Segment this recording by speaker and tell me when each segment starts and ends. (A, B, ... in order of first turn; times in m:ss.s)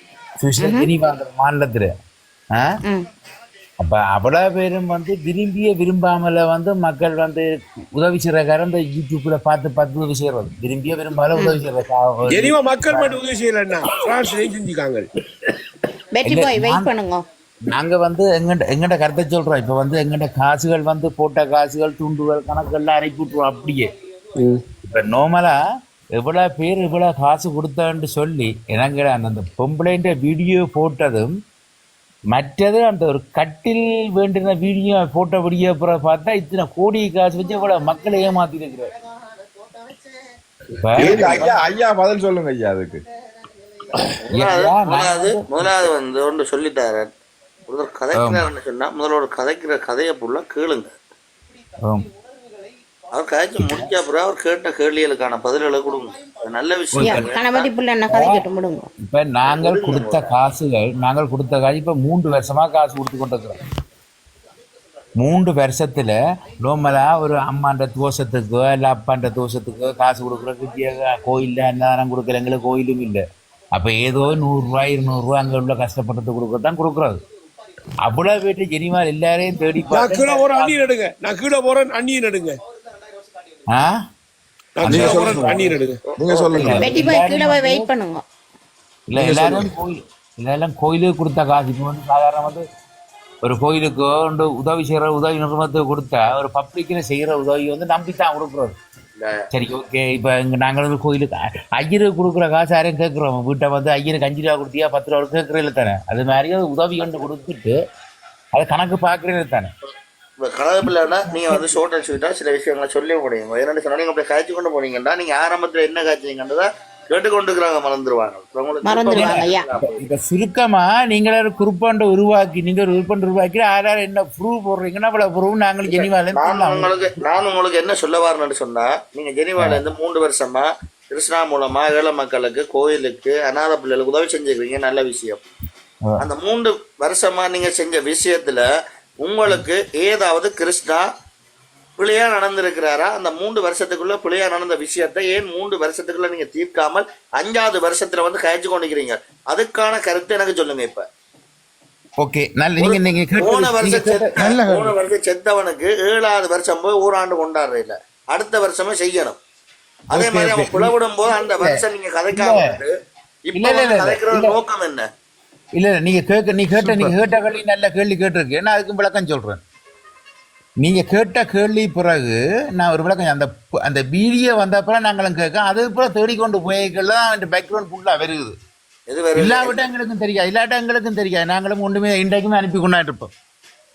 0:00.4-0:01.9 A
0:00.6-0:00.9 B
0:03.8-0:13.2 A
0:12.3-0:15.1 C
0:16.2-0:17.2 B
0:16.2-0:16.9 A
0:17.7-0:25.6 A
0:26.2-0:31.3 A
0:32.3-0:38.9 A
0:40.8-0:41.5 A
0:40.9-0:43.0 D
0:41.0-0:41.5 E
0:44.0-0:45.9 A
0:44.3-0:47.1 E
0:47.7-0:50.9 E
0:48.2-0:48.5 A
0:53.1-0:57.7 E
0:53.6-0:53.9 A
0:56.9-0:57.2 A
0:57.0-0:58.9 B
0:58.1-0:58.4 A
0:59.0-1:03.6 A
0:59.5-1:00.3 E
1:05.2-1:13.2 A
1:13.8-1:17.2 A
1:18.0-1:20.8 A
1:19.9-1:22.6 C
1:23.7-1:24.0 A
1:24.8-1:26.0 C
1:24.9-1:25.8 A
1:24.9-1:26.8 E
1:24.9-1:25.2 D
1:26.2-1:27.1 D
1:26.5-1:27.9 A
1:26.8-1:28.2 B
1:29.1-1:32.7 A
1:29.2-1:29.7 D
1:33.4-1:38.8 A
1:39.2-1:39.5 E
1:39.5-1:47.8 A
1:48.5-1:49.7 A
1:50.4-2:00.0 E
1:51.3-1:51.7 A
1:58.8-1:59.7 B
1:59.1-2:06.9 A
2:05.9-2:15.4 E
2:16.2-2:18.6 E
2:19.2-2:21.1 E
2:22.0-2:31.1 E
2:32.2-2:34.9 A
2:32.8-2:39.4 E
2:40.1-2:40.9 A
2:40.1-2:42.9 E
2:42.3-2:42.7 A
2:43.5-2:45.1 E
2:43.5-2:44.6 A
2:45.8-2:49.6 A
2:46.8-2:47.1 E
2:50.8-2:58.6 A
2:59.1-2:59.8 E
2:59.4-3:03.3 A